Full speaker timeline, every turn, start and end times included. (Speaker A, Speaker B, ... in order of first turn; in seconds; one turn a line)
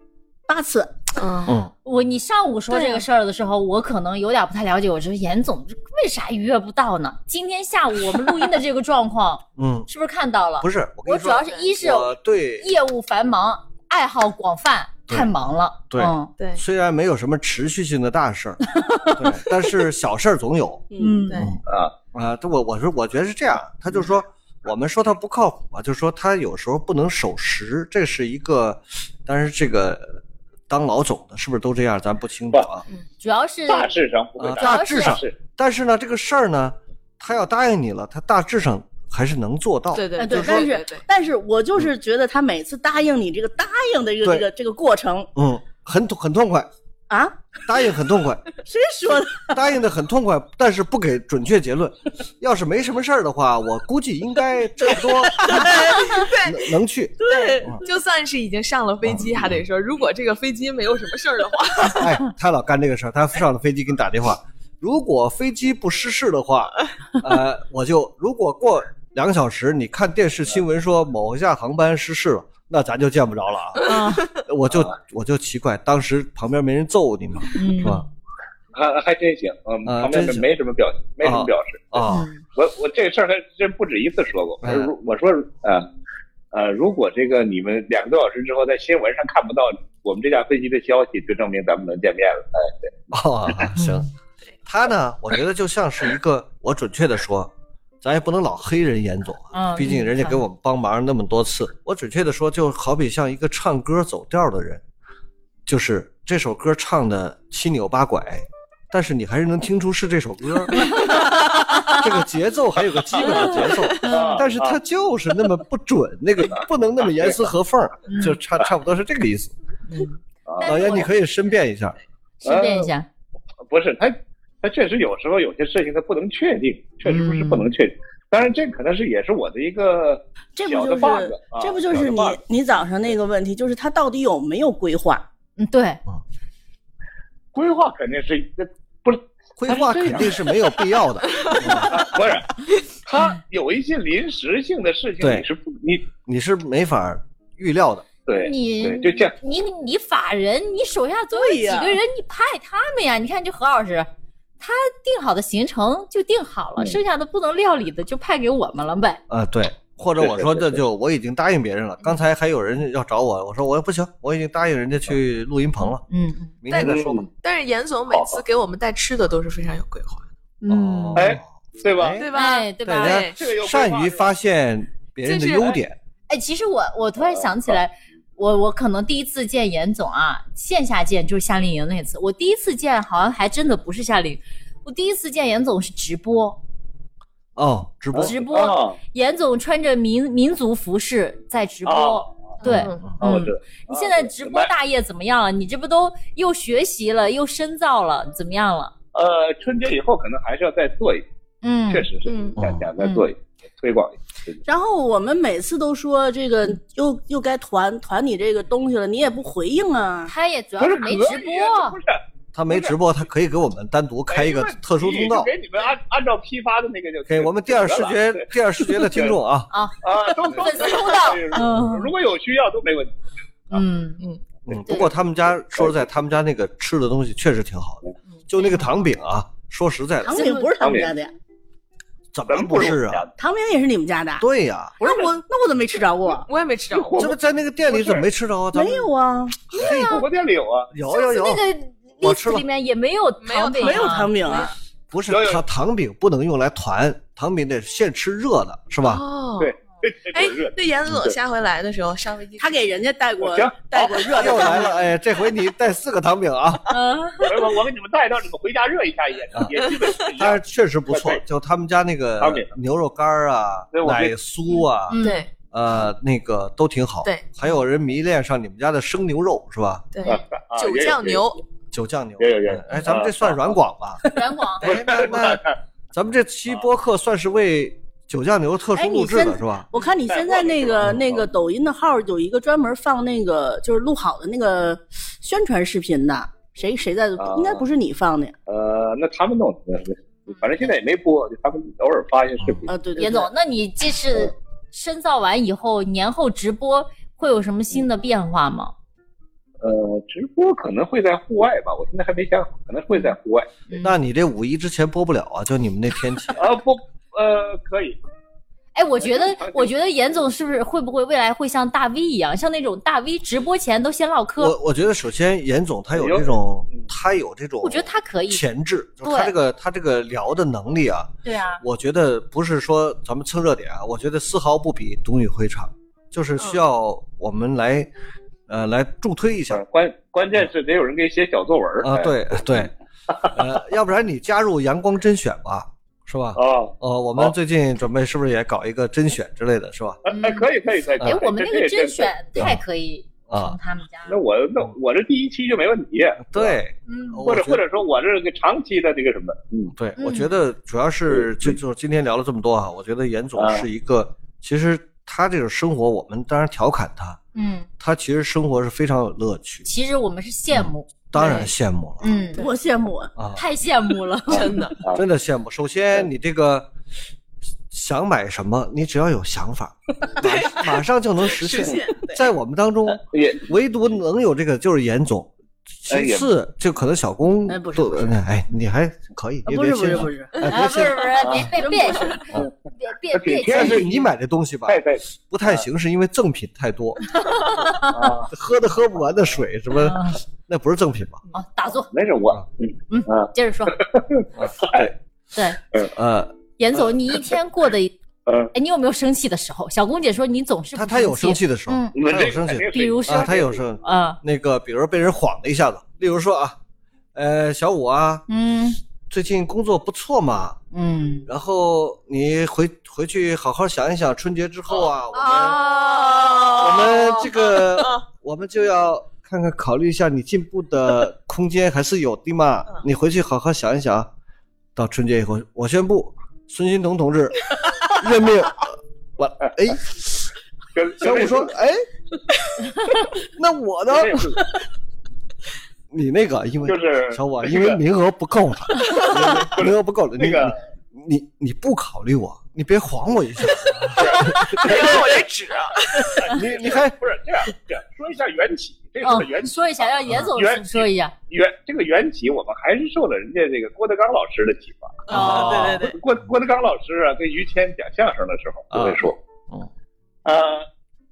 Speaker A: 0.5-1.0
Speaker B: 1.1-1.6
Speaker C: 1.5-1.7
Speaker D: 1.9-16.3
Speaker B: 2.7-3.0
Speaker C: 9.6-9.9
Speaker C: 10.6-12.7
Speaker B: 11.4-11.7
Speaker C: 15.9-21.6
Speaker B: 16.4-16.6
Speaker D: 18.7-19.6
Speaker A: 20.9-21.3
Speaker D: 21.0-21.5
Speaker B: 21.3-21.6
Speaker E: 21.7-21.9
Speaker C: 22.1-32.8
Speaker D: 33.2-34.0
Speaker E: 33.7-35.4
Speaker C: 34.4-40.8
Speaker D: 34.6-35.2
Speaker B: 39.9-41.0
Speaker A: 40.2-45.3
Speaker C: 45.4-46.7
Speaker A: 47.1-47.4
Speaker C: 47.7-48.4
Speaker A: 48.6-49.6
Speaker C: 49.5-55.8
Speaker A: 54.9-56.3
Speaker B: 55.5-56.7
Speaker C: 56.3-57.8
Speaker B: 57.2-62.1
Speaker A: 57.2-57.8
Speaker C: 59.0-59.6
Speaker C: 62.0-78.0
Speaker B: 73.8-74.3
Speaker D: 73.8-74.2
Speaker D: 77.5-78.0
Speaker E: 78.7-85.9
Speaker C: 79.8-80.5
Speaker C: 81.2-82.3
Speaker D: 82.1-82.4
Speaker C: 84.6-84.9
Speaker E: 86.5-92.9
Speaker C: 93.1-94.1
Speaker D: 93.8-94.1
Speaker C: 94.7-97.5
Speaker C: 98.0-104.8
Speaker D: 99.5-100.4
Speaker C: 105.7-111.1
Speaker D: 110.9-111.9
Speaker C: 111.9-119.5
Speaker D: 113.2-114.4
Speaker E: 114.0-114.8
Speaker E: 116.5-117.4
Speaker D: 118.1-118.4
Speaker D: 119.9-121.1
Speaker E: 120.5-120.9
Speaker C: 120.6-122.0
Speaker E: 122.4-122.9
Speaker D: 122.4-123.1
Speaker E: 123.7-132.4
Speaker D: 127.0-127.7
Speaker A: 130.6-135.2
Speaker D: 135.6-136.0
Speaker E: 137.5-140.4
Speaker C: 139.6-142.0
Speaker B: 141.3-141.8
Speaker E: 141.9-142.5
Speaker E: 143.1-146.1
Speaker C: 145.2-145.5
Speaker C: 146.2-148.1
Speaker E: 148.3-149.3
Speaker D: 148.4-154.1
Speaker A: 151.3-152.0
Speaker D: 154.6-159.2
Speaker C: 159.3-166.0
Speaker E: 160.2-160.8
Speaker D: 166.1-166.6
Speaker C: 166.6-167.2
Speaker B: 166.7-170.2
Speaker E: 166.7-167.3
Speaker E: 168.1-168.4
Speaker D: 170.6-171.3
Speaker C: 170.7-172.3
Speaker E: 171.2-172.2
Speaker B: 172.2-173.4
Speaker D: 172.3-173.3
Speaker C: 172.8-176.0
Speaker E: 173.3-174.3
Speaker B: 175.2-175.7
Speaker D: 176.3-186.6
Speaker E: 177.2-177.8
Speaker C: 187.6-188.4
Speaker E: 188.1-189.0
Speaker D: 188.2-198.9
Speaker E: 191.8-192.5
Speaker B: 192.6-193.1
Speaker C: 192.7-193.1
Speaker E: 193.2-194.7
Speaker E: 199.1-201.2
Speaker D: 201.6-202.1
Speaker E: 201.9-204.6
Speaker B: 202.2-202.6
Speaker C: 202.6-202.9
Speaker D: 203.0-203.3
Speaker A: 204.7-210.3
Speaker D: 210.3-212.0
Speaker E: 210.8-213.0
Speaker C: 212.5-215.5
Speaker E: 214.3-219.4
Speaker C: 217.3-219.7
Speaker D: 219.7-222.1
Speaker E: 220.0-223.1
Speaker D: 223.7-224.2
Speaker C: 224.7-230.5
Speaker D: 224.9-225.1
Speaker E: 225.7-226.0
Speaker D: 228.6-228.9
Speaker A: 230.2-231.3
Speaker D: 230.3-230.7
Speaker E: 230.8-231.1
Speaker C: 232.3-233.3
Speaker E: 232.5-233.3
Speaker A: 233.4-234.5
Speaker C: 234.4-234.9
Speaker A: 235.0-236.5
Speaker B: 236.4-237.3
Speaker E: 236.9-238.3
Speaker C: 237.2-239.1
Speaker A: 238.8-239.7
Speaker C: 239.6-240.2
Speaker D: 239.8-240.2
Speaker E: 239.8-240.9
Speaker C: 240.9-241.6
Speaker D: 241.1-244.7
Speaker C: 242.2-242.7
Speaker B: 243.4-244.7
Speaker A: 243.8-244.7
Speaker C: 245.1-249.2
Speaker E: 245.3-245.6
Speaker B: 249.0-249.7
Speaker E: 249.6-251.4
Speaker B: 250.3-252.9
Speaker A: 252.6-255.0
Speaker E: 253.4-254.9
Speaker C: 254.4-256.9
Speaker D: 256.9-257.7
Speaker E: 257.4-261.4
Speaker B: 259.8-260.1
Speaker C: 260.3-270.1
Speaker E: 262.4-262.7
Speaker E: 263.9-264.3
Speaker D: 265.1-265.4
Speaker B: 265.2-265.5
Speaker B: 270.1-271.6
Speaker E: 270.2-271.5
Speaker C: 271.9-274.3
Speaker E: 272.4-273.8
Speaker D: 274.3-275.1
Speaker C: 274.8-279.9
Speaker E: 274.8-275.8
Speaker A: 278.9-288.5
Speaker E: 280.3-281.5
Speaker E: 287.4-287.9
Speaker E: 288.7-292.9
Speaker C: 292.6-292.9
Speaker A: 292.9-293.5
Speaker D: 293.2-298.9
Speaker E: 299.8-303.7
Speaker D: 303.9-304.2
Speaker C: 304.0-306.7
Speaker E: 306.6-308.2
Speaker D: 308.9-314.8
Speaker E: 309.2-309.9
Speaker C: 314.6-328.1
Speaker E: 316.1-317.1
Speaker D: 317.8-318.6
Speaker D: 319.2-319.5
Speaker D: 321.4-321.8
Speaker C: 328.7-329.8
Speaker E: 329.7-333.5
Speaker C: 332.0-332.9
Speaker C: 333.5-340.2
Speaker E: 336.6-337.5
Speaker E: 340.2-342.7
Speaker D: 340.3-340.7
Speaker D: 341.2-344.4
Speaker C: 343.5-343.8
Speaker E: 344.3-346.8
Speaker C: 346.4-347.8
Speaker D: 347.1-347.5
Speaker E: 347.4-349.9
Speaker C: 350.0-357.4
Speaker D: 350.2-350.5
Speaker E: 351.3-351.8
Speaker E: 353.6-353.9
Speaker D: 357.6-357.9
Speaker C: 358.0-359.9
Speaker D: 359.9-362.7
Speaker C: 360.7-362.4
Speaker A: 362.6-363.3
Speaker C: 363.4-363.6
Speaker D: 363.6-364.9
Speaker B: 364.5-365.0
Speaker C: 365.1-366.9
Speaker C: 367.9-381.6
Speaker B: 370.4-372.4
Speaker E: 373.1-373.7
Speaker E: 376.1-376.5
Speaker A: 377.7-378.3
Speaker A: 379.7-380.7
Speaker D: 380.6-384.3
Speaker E: 381.4-381.7
Speaker A: 381.8-382.4
Speaker E: 383.3-384.2
Speaker C: 383.6-387.4
Speaker E: 384.9-385.9
Speaker D: 387.3-388.3
Speaker E: 388.1-388.5
Speaker C: 388.5-391.4
Speaker D: 389.9-390.4
Speaker D: 391.5-392.1
Speaker E: 392.1-395.1
Speaker D: 393.1-394.0
Speaker C: 394.6-395.1
Speaker C: 396.0-396.6
Speaker D: 396.8-398.1
Speaker E: 398.5-398.7
Speaker D: 398.7-402.2
Speaker C: 400.9-406.8
Speaker E: 402.2-403.8
Speaker D: 402.9-404.4
Speaker C: 407.4-408.5
Speaker D: 408.5-409.0
Speaker C: 409.3-410.8
Speaker D: 410.9-411.5
Speaker C: 411.5-415.9
Speaker B: 415.4-418.2
Speaker C: 416.8-424.3
Speaker C: 425.0-430.5
Speaker E: 430.9-431.7
Speaker C: 431.2-432.1
Speaker C: 433.4-434.5
Speaker E: 434.1-434.7
Speaker C: 436.1-445.1
Speaker E: 436.9-438.0
Speaker E: 439.2-440.8
Speaker E: 444.2-445.5
Speaker B: 444.7-446.5
Speaker E: 446.2-459.4
Speaker C: 446.5-447.1
Speaker D: 449.2-451.3
Speaker B: 455.3-456.2
Speaker D: 455.3-456.0
Speaker C: 455.3-456.0
Speaker C: 458.9-459.9
Speaker E: 460.4-460.9